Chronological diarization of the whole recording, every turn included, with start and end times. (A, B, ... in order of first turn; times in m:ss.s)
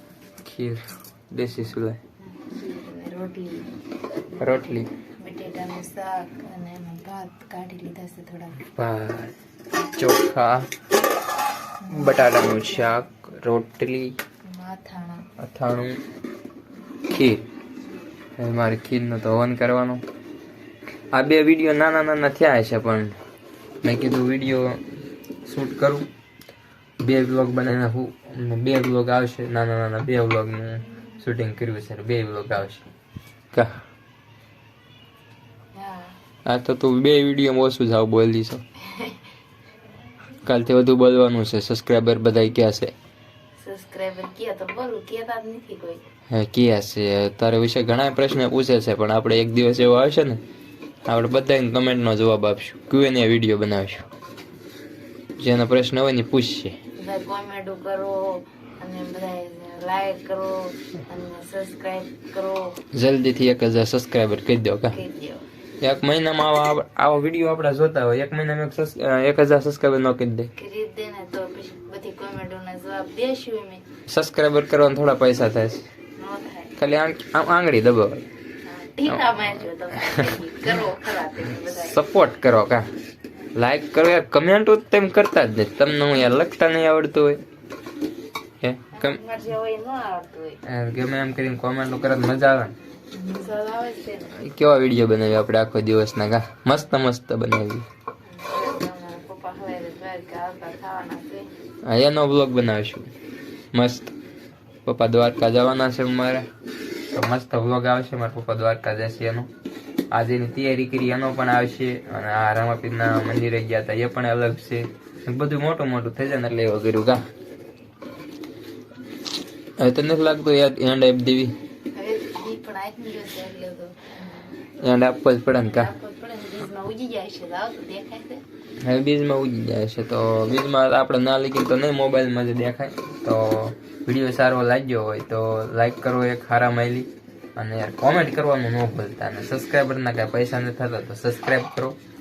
0:00.4-0:02.0 A
0:02.2-0:03.7 B
0:04.4-0:08.6 B
0:04.4-0:04.9 A
0:08.7-0:09.3 A
0:09.9-0:10.7 A
0:11.8-0:13.0 B
0:11.9-0:14.2 A
0:14.4-0:15.3 B
0:15.4-0:16.0 A
0:17.1-0:17.4 A
0:18.4-0:20.0 A
0:21.1-0:23.1 A
0:23.8-0:24.8 A
0:25.4-0:26.0 A
0:27.0-0:32.9 A
0:35.7-0:36.1 B
0:36.4-0:38.6 A
0:40.4-0:42.9 A
0:43.6-0:46.0 B
0:46.3-0:50.4 A
0:51.0-0:54.1 A
0:55.4-0:56.7 A
0:57.0-1:02.8 B
1:02.9-1:05.0 A
1:04.9-1:05.4 B
1:05.8-1:10.5 A
1:10.6-1:13.8 B
1:14.1-1:15.8 A
1:16.2-1:16.8 B
1:16.8-1:18.2 A
1:18.6-1:22.0 B
1:19.9-1:20.3 A
1:21.7-1:22.8 A
1:23.5-1:27.4 A
1:28.6-1:29.2 A
1:28.9-1:30.6 B
1:30.6-1:32.7 A
1:33.1-1:34.3 B
1:34.4-1:37.8 A
1:38.2-1:41.5 B
1:41.8-1:43.1 A
1:43.7-1:44.1 A
1:44.8-1:46.4 A
1:47.1-1:49.5 A
1:50.1-1:57.2 A
1:59.8-2:01.5 A
2:01.9-2:04.5 B
2:04.8-2:05.9 A
2:05.5-2:08.4 B
2:08.8-2:22.0 A